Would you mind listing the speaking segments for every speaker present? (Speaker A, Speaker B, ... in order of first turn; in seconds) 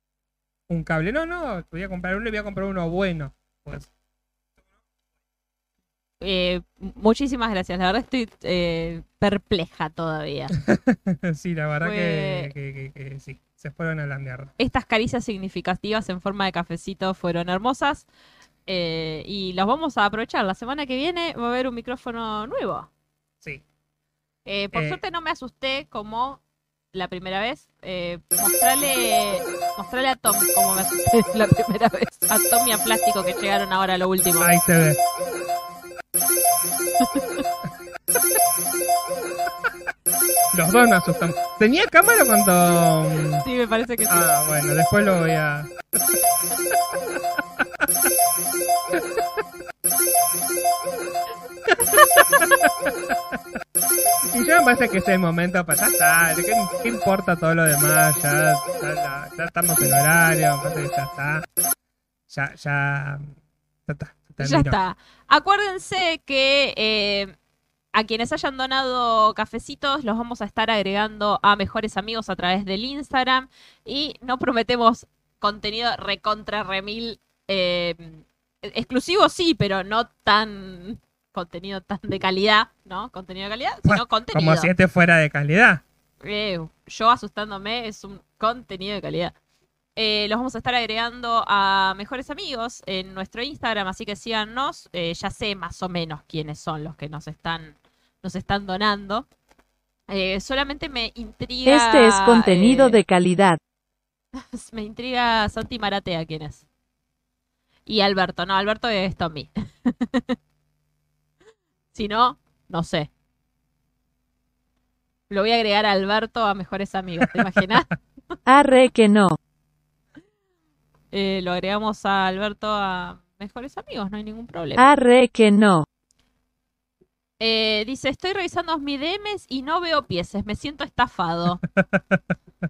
Speaker A: 0.7-3.9, 10.6-14.5, 24.7-25.0, 34.4-35.0, 40.5-43.4, 44.1-45.7, 52.0-53.4, 54.2-61.4, 62.3-64.8, 83.8-85.8, 131.8-132.2
Speaker B: 6.2-10.5, 11.8-12.5, 14.6-18.1, 18.6-22.9, 24.4-26.4, 26.9-34.5, 37.0-37.4, 43.4-44.2, 51.8-52.2, 64.4-67.3, 67.9-84.7, 86.2-89.3, 90.0-99.3, 100.1-103.0, 104.3-106.6, 107.9-110.3, 111.9-113.1, 115.3-117.9, 121.1-124.8, 127.4-131.6
Speaker C: 101.6-103.6, 118.5-119.4, 124.8-125.8